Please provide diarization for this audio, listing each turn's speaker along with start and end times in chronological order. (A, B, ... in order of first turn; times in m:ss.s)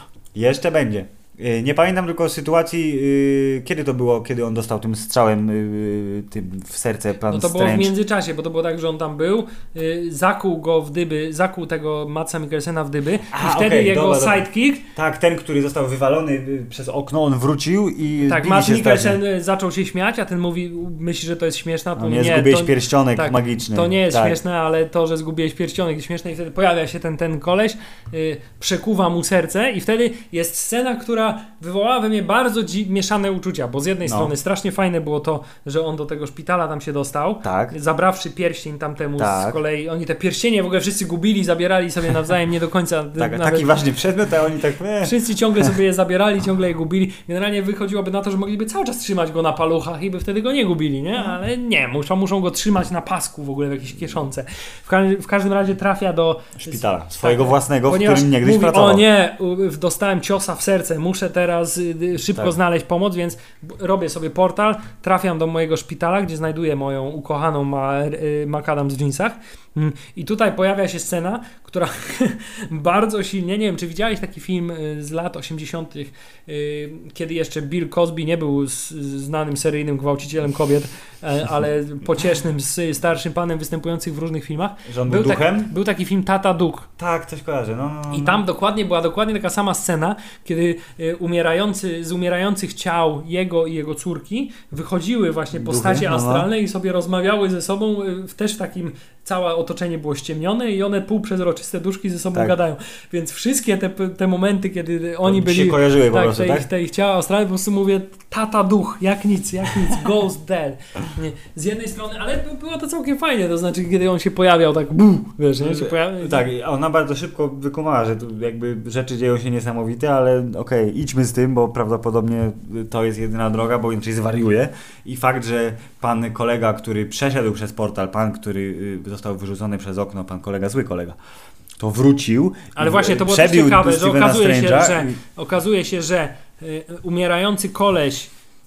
0:00.3-0:07.9 A
0:07.3-0:14.9 B
0:13.3-0:19.2 A
0:18.3-0:43.7 B
0:22.0-0:24.4 A
0:34.1-0:34.3 A
0:37.4-0:37.7 A
0:39.2-0:39.6 A
0:43.2-0:45.7 A
0:45.0-1:26.9 B
0:56.6-0:59.0 A
1:24.9-1:25.7 A
1:27.0-1:28.4 A
1:28.1-1:56.5 B
1:35.6-1:36.5 A
1:45.2-1:46.7 A
1:55.6-2:11.2 A
2:11.8-2:15.2 A
2:12.7-2:18.3 B